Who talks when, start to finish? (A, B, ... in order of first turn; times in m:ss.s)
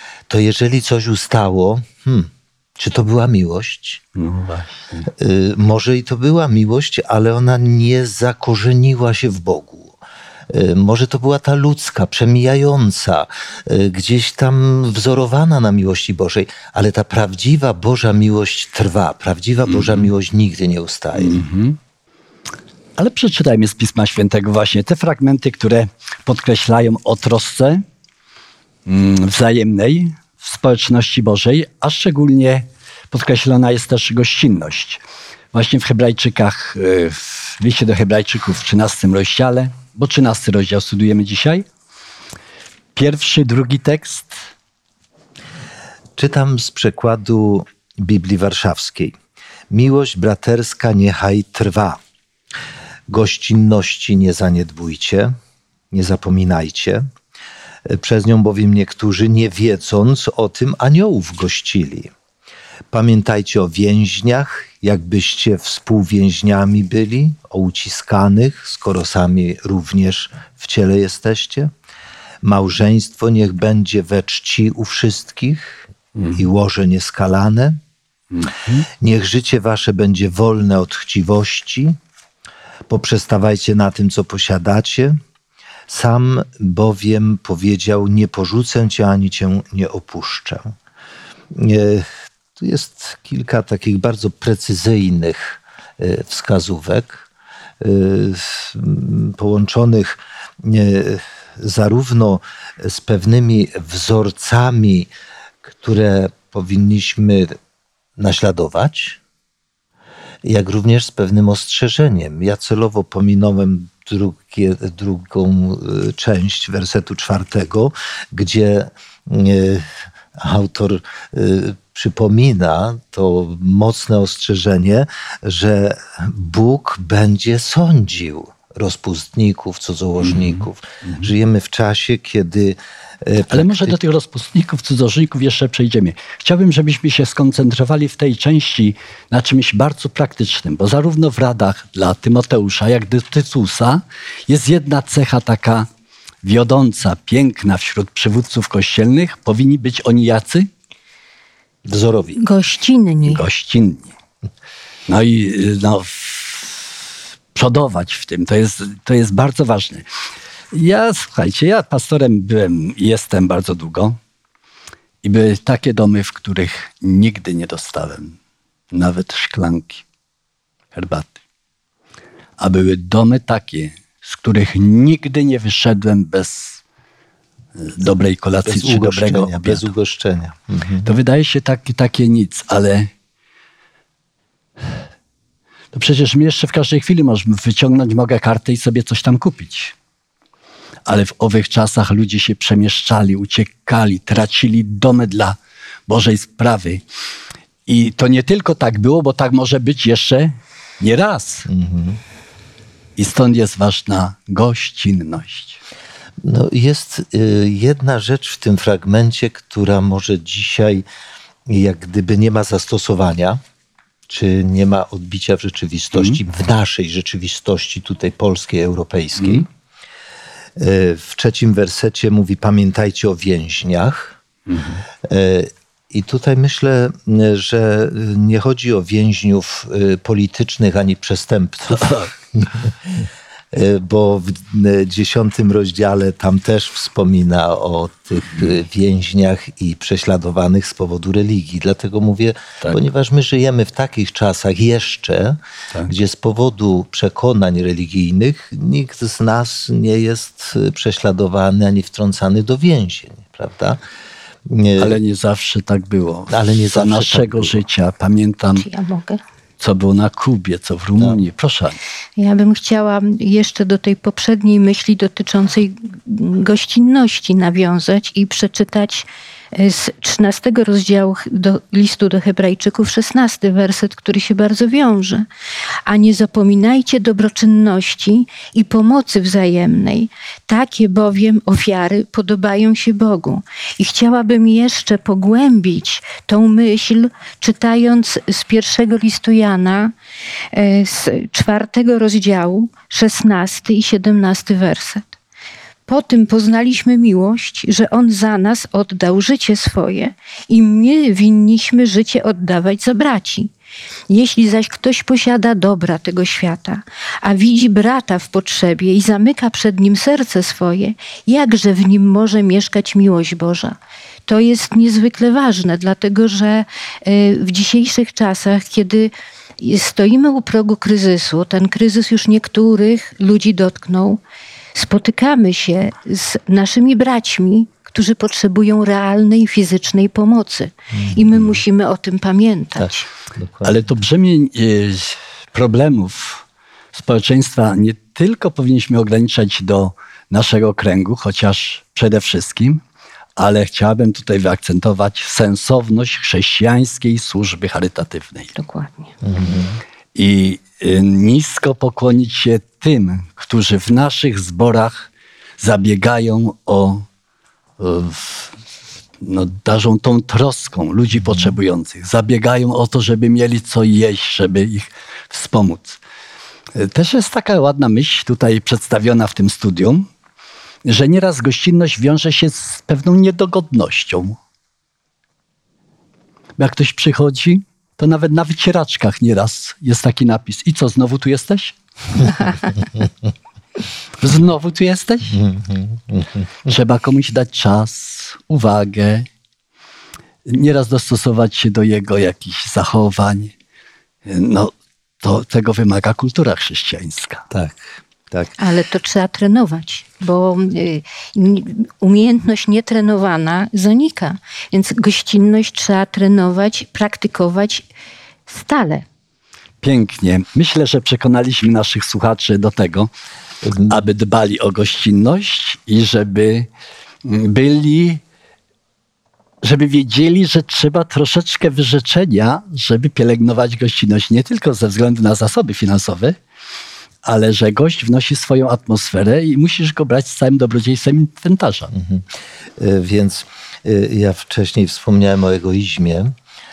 0:00.3-0:04.0 A
0:04.2-0:05.1 B
0:05.1-0:10.0 A
0:10.5-0:21.4 A
0:19.7-0:20.1 B
0:21.2-0:21.8 B
0:23.0-0:27.8 B
0:28.9-0:35.0 B
0:35.5-0:41.6 B
0:43.0-0:44.4 B
0:46.2-0:49.1 A
0:49.7-0:52.0 A
0:53.1-0:55.3 A
0:55.9-0:57.1 A
0:57.9-1:02.1 A
1:02.9-1:11.7 A
1:12.4-1:17.8 A
1:16.2-1:16.5 B
1:18.3-1:18.9 B
1:18.9-1:22.0 A
1:22.9-1:25.2 A
1:25.9-1:30.7 A
1:31.5-1:37.3 A
1:37.8-1:45.1 A
1:45.6-1:47.6 A
1:48.2-1:49.2 A
1:50.4-2:14.0 A
2:10.2-2:11.3 B
2:13.5-2:25.9 B
2:26.4-2:30.7 B
2:31.9-2:32.4 A
2:32.4-2:33.4 C
2:33.3-2:34.1 B
2:35.1-2:40.1 B
2:40.7-2:44.2 B
2:45.2-2:48.4 B
2:48.9-2:50.0 B
2:50.9-2:51.4 B
2:52.6-2:56.8 B
2:57.8-2:59.9 B
2:58.6-3:01.1 A
3:01.0-3:03.1 B
3:05.9-3:10.0 B
3:11.1-3:17.0 B
3:17.9-3:21.7 B
3:21.7-3:22.2 A
3:23.2-3:25.8 B
3:26.4-3:31.0 A
3:31.7-3:33.6 A
3:34.3-3:39.7 A
3:39.4-3:39.6 B
3:40.8-3:44.4 A
3:44.7-3:45.0 B
3:45.2-4:14.0 A
3:51.9-3:52.3 B
4:14.7-4:15.2 A
4:15.0-4:18.8 B
4:16.5-4:17.8 A
4:18.8-4:19.4 C
4:19.8-4:22.0 B
4:22.4-4:35.5 C
4:36.1-4:50.1 C
4:50.7-4:55.3 C
4:56.1-5:03.7 C
5:04.3-5:24.4 C
5:24.9-5:33.3 C
5:31.1-5:31.8 A
5:33.0-5:34.0 A
5:33.8-5:43.0 B
5:43.6-5:48.7 B
5:48.8-5:49.3 C
5:49.4-5:50.0 A
5:50.3-5:57.3 B
5:58.0-5:58.8 B
5:59.4-6:06.2 B
6:07.0-6:10.3 B
6:11.0-6:14.6 B
6:16.8-6:22.7 B
6:24.4-6:25.6 B
6:25.5-6:26.9 A
6:26.8-6:29.5 B
6:30.7-6:33.7 B
6:34.4-6:37.7 B
6:37.7-6:38.7 A
6:38.8-6:48.1 C
6:48.7-6:49.2 C
6:50.0-6:53.3 B
6:53.8-6:54.2 A
6:54.0-6:56.9 B
6:57.4-6:58.4 B
6:59.8-7:06.6 B
7:07.4-7:12.1 B
7:12.1-7:16.6 A